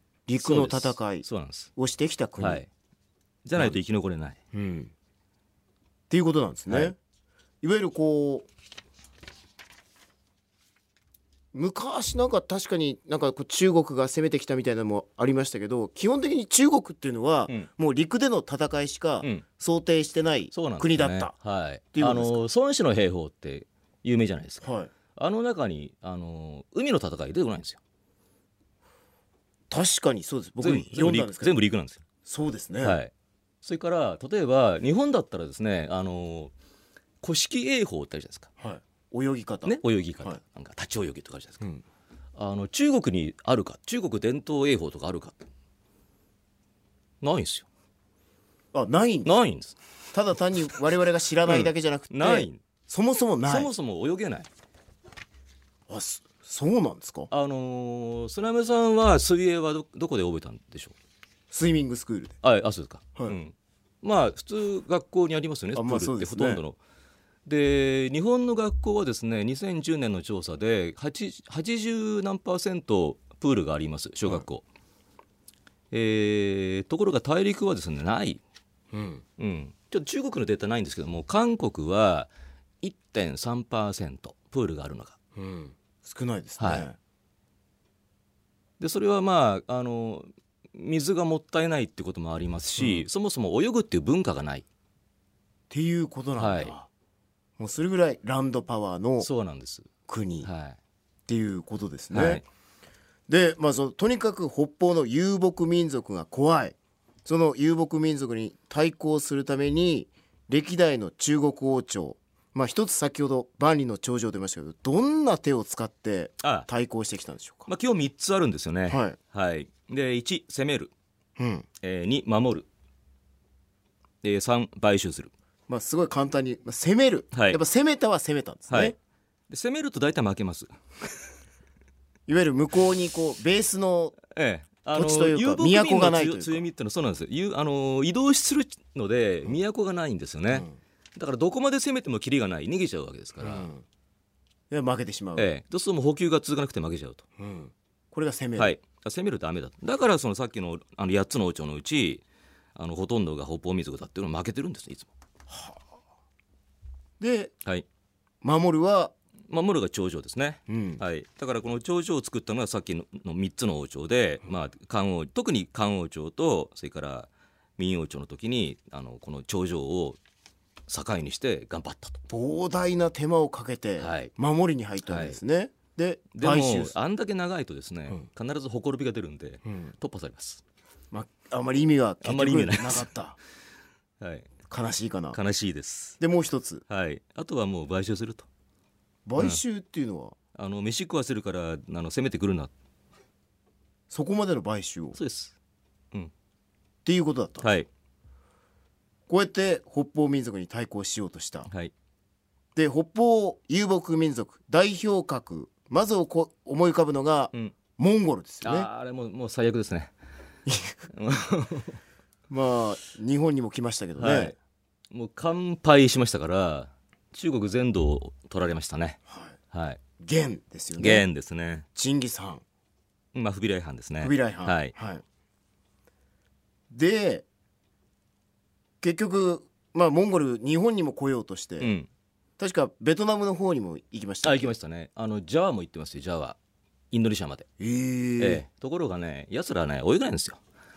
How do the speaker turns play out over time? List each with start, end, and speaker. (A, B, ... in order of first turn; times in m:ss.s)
0:00.3-0:02.6 A
0:00.4-0:01.7 B
0:02.4-0:02.7 B
0:03.4-0:04.4 B
0:04.5-0:04.9 A
0:06.1-0:07.0 A
0:06.7-0:06.9 B
0:07.6-0:08.5 A
0:11.5-0:21.3 A
0:20.5-0:27.8 B
0:21.9-0:22.4 A
0:24.6-0:24.9 A
0:29.7-0:31.6 A
0:30.6-0:32.0 B
0:32.2-0:33.0 A
0:32.8-0:36.5 B
0:37.2-0:38.5 B
0:38.6-0:40.4 A
0:39.6-0:41.6 B
0:42.4-0:45.4 B
0:47.2-0:47.7 B
0:48.7-0:49.3 A
0:49.2-0:49.8 B
0:50.1-0:53.7 A
0:51.4-0:52.6 B
0:53.4-0:54.5 B
0:55.9-0:57.3 A
0:57.3-1:00.9 B
1:01.5-1:02.4 A
1:02.4-1:06.8 B
1:05.7-1:06.6 A
1:07.4-1:14.6 B
1:15.9-1:18.4 B
1:18.9-1:19.2 A
1:19.4-1:22.3 B
1:22.8-1:25.1 B
1:25.4-1:27.0 A
1:26.6-1:26.9 B
1:28.8-1:34.6 B
1:32.8-1:33.0 A
1:35.7-1:36.9 A
1:36.4-1:36.7 B
1:37.6-1:39.3 A
1:39.2-1:39.9 B
1:40.1-1:40.5 A
1:40.4-1:40.8 B
1:41.3-1:42.4 A
1:42.1-1:42.4 B
1:43.3-1:57.7 A
1:56.4-1:56.7 B
1:57.7-2:00.9 B
1:58.8-1:59.2 A
2:01.4-2:01.7 A
2:01.8-2:02.7 B
2:04.2-2:05.3 B
2:05.7-2:09.0 A
2:07.3-2:07.6 B
2:08.7-2:08.9 B
2:09.5-2:11.1 B
2:12.3-2:14.2 A
2:14.3-2:23.7 B
2:14.9-2:16.6 A
2:20.5-2:20.8 A
2:23.4-2:23.8 A
2:24.7-2:25.5 A
2:25.4-2:27.2 B
2:27.4-2:28.8 A
2:28.6-2:32.2 B
2:32.7-2:35.1 B
2:35.5-2:35.8 A
2:37.2-2:37.5 A
2:38.4-2:39.1 A
2:39.5-2:50.2 B
2:40.7-2:41.0 A
2:50.9-2:52.2 B
2:52.3-2:57.0 A
2:54.0-2:54.3 B
2:55.0-2:55.4 B
2:56.3-3:00.6 B
2:59.6-2:59.9 A
3:01.1-3:03.4 A
3:02.2-3:03.1 B
3:04.2-3:04.5 B
3:04.7-3:05.4 A
3:05.3-3:06.2 B
3:06.2-3:06.8 A
3:06.9-3:08.5 B
3:09.2-3:10.4 A
3:10.5-3:12.7 B
3:14.1-3:15.2 A
3:15.1-3:15.6 B
3:17.0-3:17.7 A
3:17.6-3:17.9 B
3:19.3-3:21.7 A
3:21.7-3:21.9 B
3:22.7-3:28.9 A
3:28.6-3:30.1 B
3:30.7-3:30.9 A
3:31.1-3:32.0 B
3:32.5-3:34.6 A
3:34.2-3:34.6 B
3:35.1-3:39.2 B
3:39.3-3:39.5 A
3:39.7-3:40.0 B
3:40.2-3:41.2 A
3:41.0-3:41.8 B
3:41.9-3:42.6 A
3:43.3-3:44.9 B
3:44.2-3:45.2 A
3:46.9-3:47.4 A
3:49.0-3:51.9 A
3:51.8-3:52.1 B
3:52.6-3:54.7 A
3:54.4-3:56.6 B
3:57.1-3:57.7 B
3:57.8-3:58.6 A
3:58.4-4:00.6 B